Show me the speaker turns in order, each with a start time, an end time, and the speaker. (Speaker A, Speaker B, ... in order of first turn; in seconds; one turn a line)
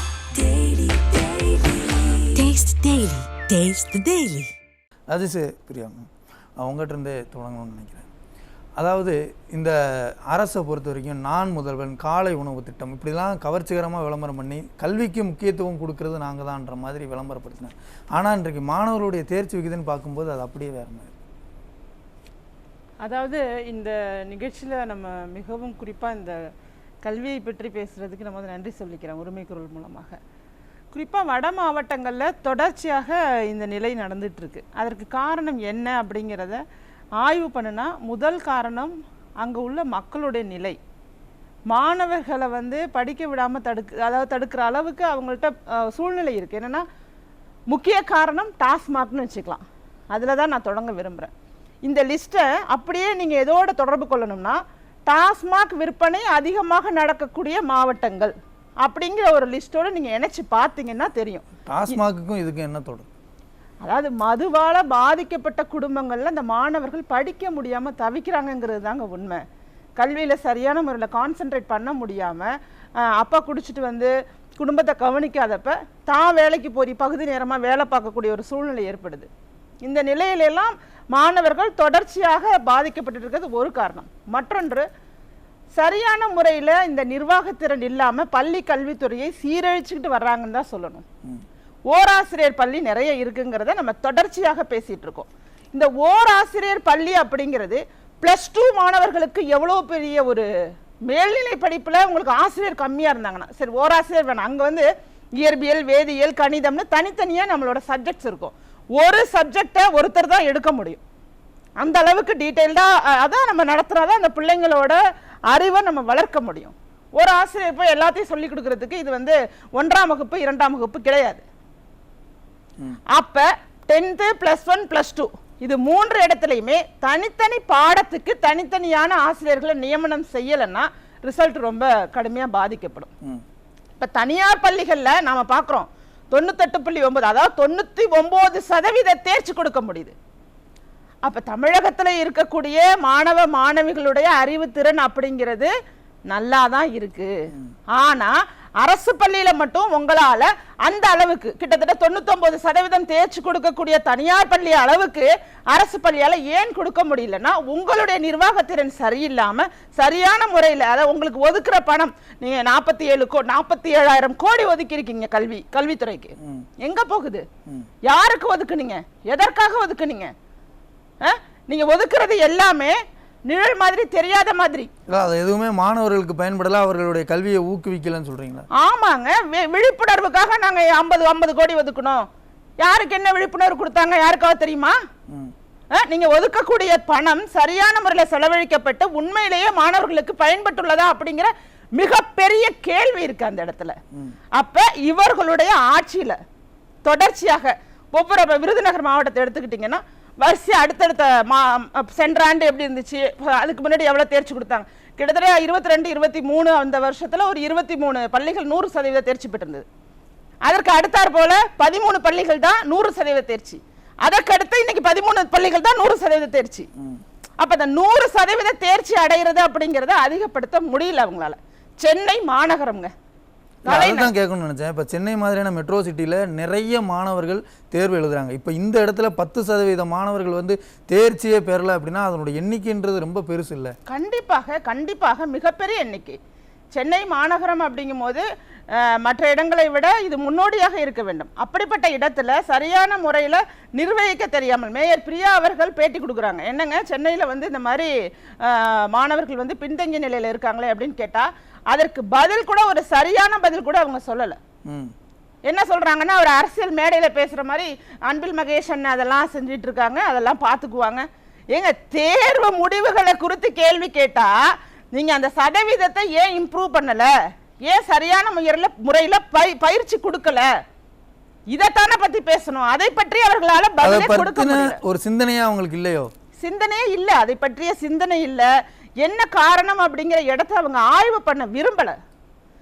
Speaker A: 0.3-4.5
Speaker B: 5.1-6.1
Speaker B: 6.6-8.1
Speaker B: 8.8-21.1
Speaker C: 23.0-26.4
Speaker C: 27.0-30.2
Speaker C: 30.9-36.6
Speaker C: 37.2-40.8
Speaker C: 41.7-46.9
Speaker C: 47.7-51.3
Speaker C: 51.9-62.0
Speaker B: 61.7-63.1
Speaker C: 63.8-69.4
Speaker C: 70.0-72.5
Speaker C: 73.0-79.3
Speaker C: 79.8-84.9
Speaker C: 85.8-91.0
Speaker C: 91.9-100.5
Speaker C: 101.1-111.0
Speaker C: 111.8-121.4
Speaker C: 123.1-133.1
Speaker C: 134.0-140.2
Speaker C: 141.2-145.7
Speaker C: 146.3-147.3
Speaker C: 148.0-167.4
Speaker B: 166.4-166.7
Speaker C: 168.1-170.3
Speaker C: 171.2-173.0
Speaker C: 173.5-174.9
Speaker B: 175.1-178.7
Speaker C: 178.8-182.2
Speaker C: 182.8-185.0
Speaker C: 185.9-194.0
Speaker C: 194.6-196.4
Speaker C: 197.1-209.8
Speaker C: 210.7-216.9
Speaker C: 217.6-223.1
Speaker C: 223.8-224.3
Speaker B: 223.9-233.9
Speaker C: 234.1-236.4
Speaker C: 236.9-254.6
Speaker B: 254.9-255.1
Speaker C: 255.7-264.5
Speaker C: 265.1-267.3
Speaker C: 267.9-270.7
Speaker C: 271.7-275.0
Speaker B: 274.0-276.3
Speaker C: 276.6-278.7
Speaker C: 279.2-282.1